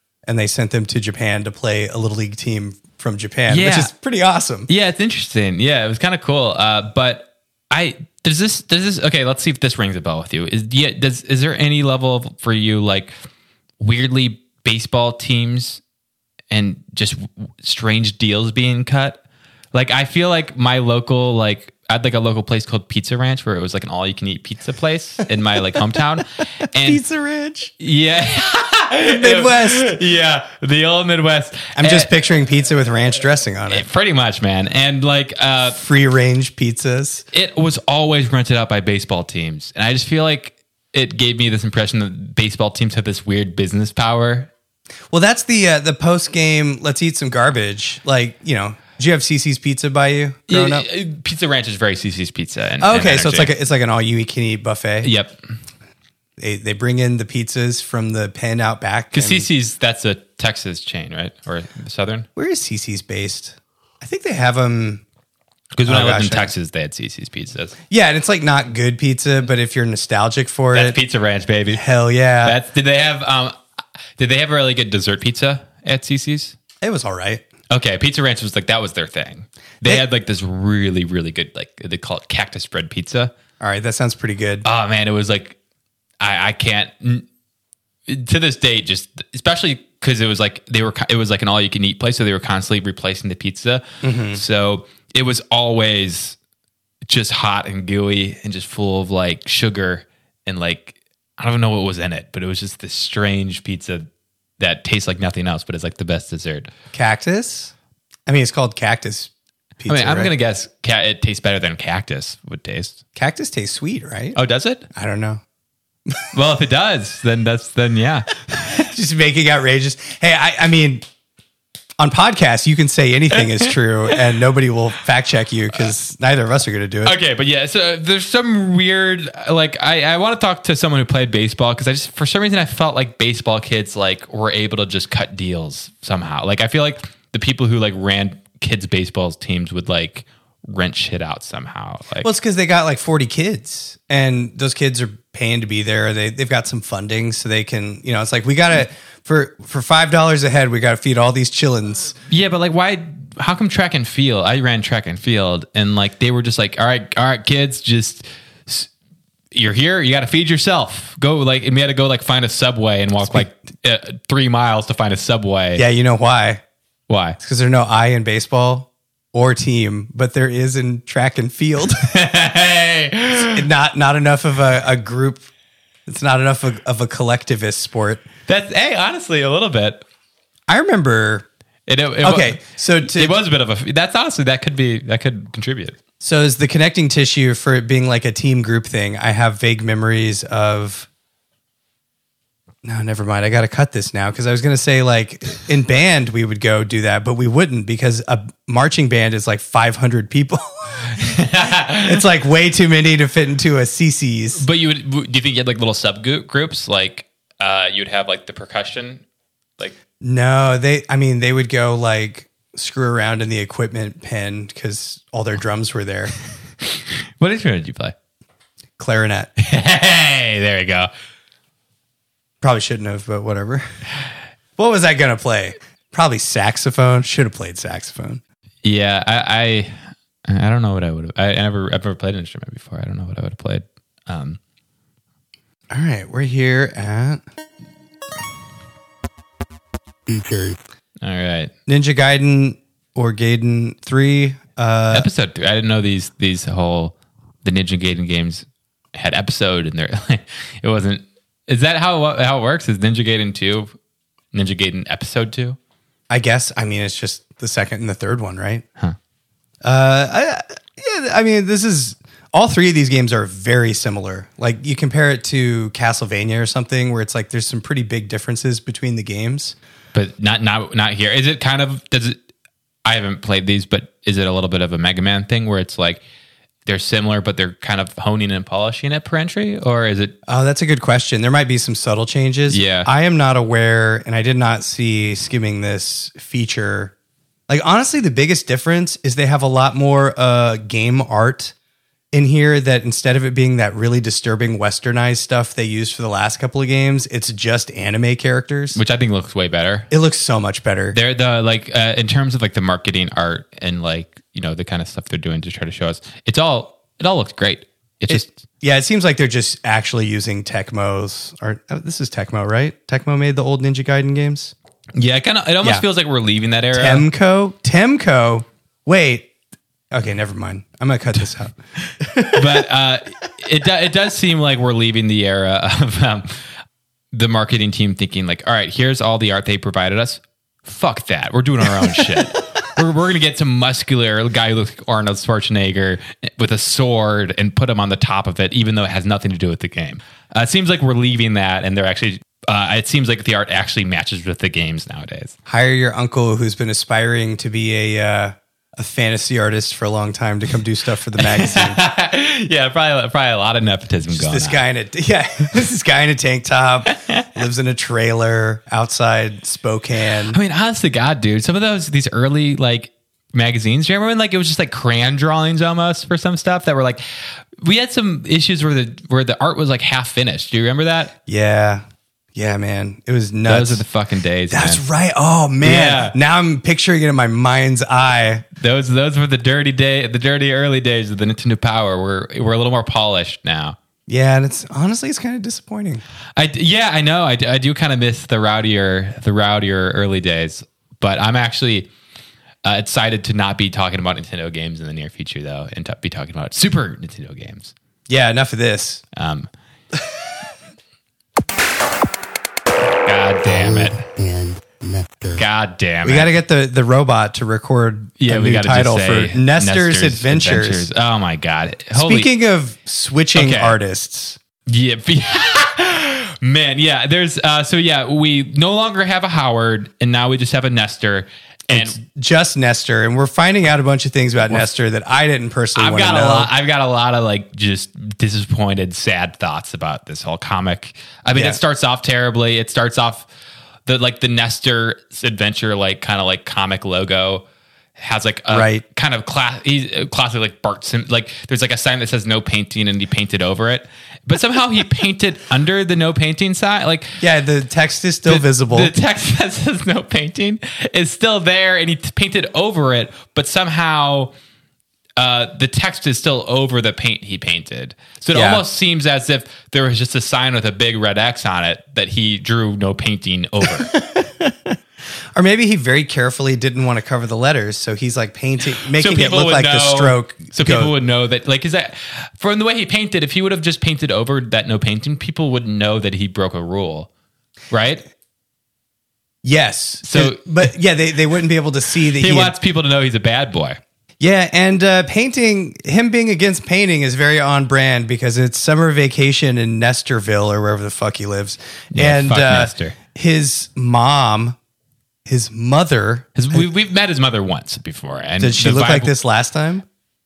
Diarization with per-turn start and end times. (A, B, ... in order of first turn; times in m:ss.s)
0:00.3-0:04.7 A
0:03.5-0:03.9 B
0:04.7-0:13.1 B
0:13.8-0:15.8 B
0:16.5-0:19.2 B
0:19.7-0:27.0 B
0:26.8-0:27.7 A
0:27.8-0:32.1 B
0:29.1-0:29.9 A
0:31.8-0:33.9 A
0:33.7-0:35.8 B
0:35.8-0:37.2 A
0:37.3-0:44.5 B
0:45.1-0:50.9 A
0:50.5-0:53.5 B
0:52.8-0:55.1 A
0:55.0-0:55.4 B
0:56.4-0:59.5 A
0:59.1-1:02.3 B
1:02.4-1:05.0 A
1:05.8-1:07.8 B
1:05.9-1:06.5 A
1:07.9-1:11.0 A
1:10.7-1:11.8 B
1:11.7-1:12.6 A
1:12.4-1:13.6 B
1:14.2-1:16.6 B
1:16.8-1:17.4 A
1:17.7-1:23.3 B
1:23.6-1:24.7 A
1:24.6-1:25.6 B
1:26.2-1:27.3 B
1:28.1-1:36.4 B
1:34.0-1:34.4 A
1:37.1-1:44.1 B
1:44.6-1:46.7 B
1:46.9-1:47.7 A
1:48.3-1:50.3 A
1:49.9-1:53.0 B
1:53.2-1:54.4 A
1:54.4-1:54.9 B
1:54.9-1:55.4 A
1:56.3-1:58.9 B
1:58.7-2:01.0 A
2:02.0-2:07.2 A
2:07.0-2:22.3 B
2:22.2-2:32.2 A
2:32.3-2:38.9 B
2:39.5-2:45.8 B
2:45.8-2:46.6 A
2:47.1-2:47.4 B
2:47.4-2:52.1 A
2:52.0-2:53.6 B
2:53.4-2:55.5 A
2:56.1-2:58.2 A
2:58.5-3:00.0 B
3:00.7-3:01.5 A
3:01.9-3:06.0 B
3:02.2-3:03.4 A
3:06.2-3:11.1 A
3:12.8-3:21.2 A
3:21.2-3:22.2 B
3:21.9-3:24.6 A
3:24.6-3:29.2 B
3:30.2-3:36.3 A
3:37.0-3:38.2 B
3:39.0-3:39.5 A
3:39.6-3:41.1 B
3:42.6-3:43.8 A
3:44.8-3:48.4 A
3:48.8-3:54.6 B
3:55.9-3:57.4 A
4:00.3-4:00.8 C
4:01.2-4:01.7 B
4:01.9-4:05.3 A
4:05.1-4:13.9 B
4:14.5-4:15.8 B
4:16.3-4:18.8 A
4:19.8-4:29.8 A
4:30.1-4:32.4 B
4:33.0-4:36.2 B
4:36.9-4:40.4 B
4:40.5-4:47.1 A
4:42.7-4:43.1 B
4:47.7-4:51.7 A
4:52.3-4:59.0 A
4:59.0-5:00.1 B
5:00.1-5:01.2 A
5:01.1-5:08.6 B
5:08.3-5:14.7 A
5:15.2-5:17.3 B
5:16.9-5:19.5 A
5:20.1-5:22.8 A
5:22.5-5:26.6 B
5:27.3-5:45.6 B
5:45.7-5:52.0 A
5:51.4-5:54.8 B
5:54.3-6:00.6 A
5:57.2-5:57.4 B
6:00.5-6:07.2 B
6:07.8-6:11.3 B
6:11.5-6:12.0 A
6:12.6-6:14.0 A
6:13.7-6:15.0 B
6:14.7-6:18.7 A
6:15.8-6:16.4 B
6:18.8-6:24.0 B
6:24.3-6:26.2 A
6:26.6-6:32.1 B
6:32.8-6:37.9 B
6:38.3-6:39.2 A
6:39.4-6:39.7 B
6:43.2-6:44.2 B
6:43.6-6:45.6 C
6:45.6-6:46.5 B
6:46.2-6:51.1 A
6:48.4-6:52.5 B
6:52.1-6:54.6 A
6:53.6-6:54.0 B
6:54.9-7:02.2 B
7:01.9-7:06.7 A
7:06.0-7:13.5 B
7:11.5-7:11.8 A
7:14.1-7:17.6 B
7:18.2-7:27.4 B
7:18.7-7:19.0 A
7:27.4-7:29.1 A
7:28.5-7:34.5 B
7:35.4-7:44.1 B
7:38.5-7:38.8 A
7:44.0-7:45.0 A
7:45.6-7:51.1 A
7:49.2-7:57.3 B
7:57.9-7:58.3 B
7:59.6-8:02.8 A
8:00.2-8:00.9 B
8:02.4-8:04.0 B
8:04.4-8:14.8 A
8:12.1-8:13.2 B
8:15.5-8:16.8 A
8:16.6-8:19.3 B
8:18.6-8:20.0 A